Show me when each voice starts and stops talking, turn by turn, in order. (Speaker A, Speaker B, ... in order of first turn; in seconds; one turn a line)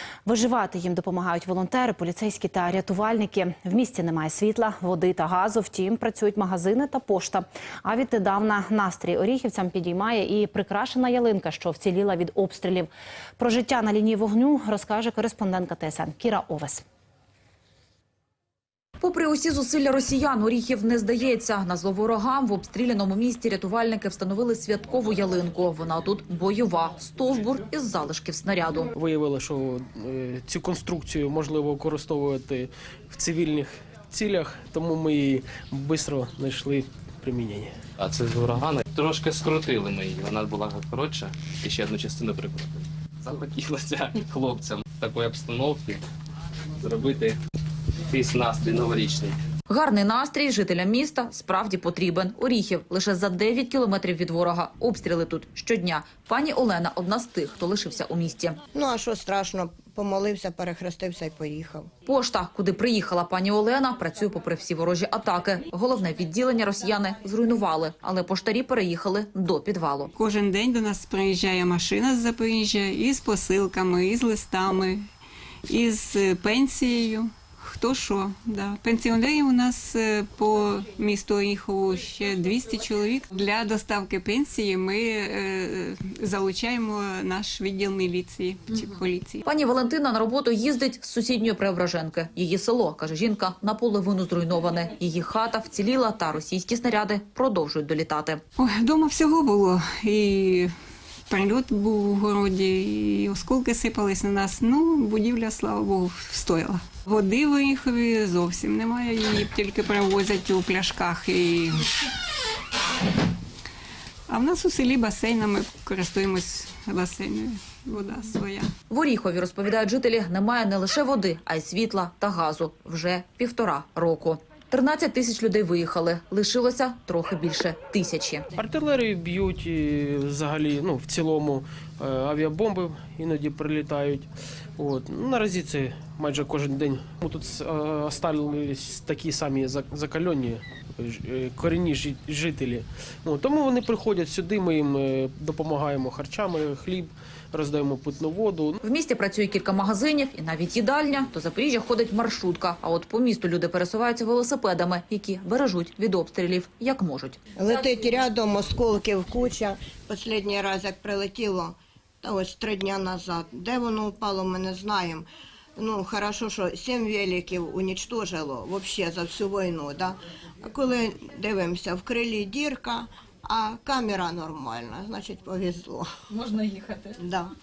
Speaker A: 0.3-16.8
Speaker B: 19.0-28.9
Speaker C: 29.0-37.7
Speaker D: 38.0-46.0
Speaker D: 46.8-47.4
Speaker D: 48.1-49.4
Speaker B: 49.7-58.6
Speaker E: 58.7-61.9
Speaker B: 62.1-70.1
Speaker F: 70.2-75.1
Speaker F: 75.7-89.4
Speaker B: 89.5-98.4
Speaker F: 98.6-100.7
Speaker F: 101.3-111.9
Speaker F: 114.3-118.7
Speaker B: 118.9-128.4
Speaker C: 128.6-134.3
Speaker C: 134.8-148.8
Speaker B: 148.8-157.4
Speaker E: 157.6-165.3
Speaker E: 165.8-177.5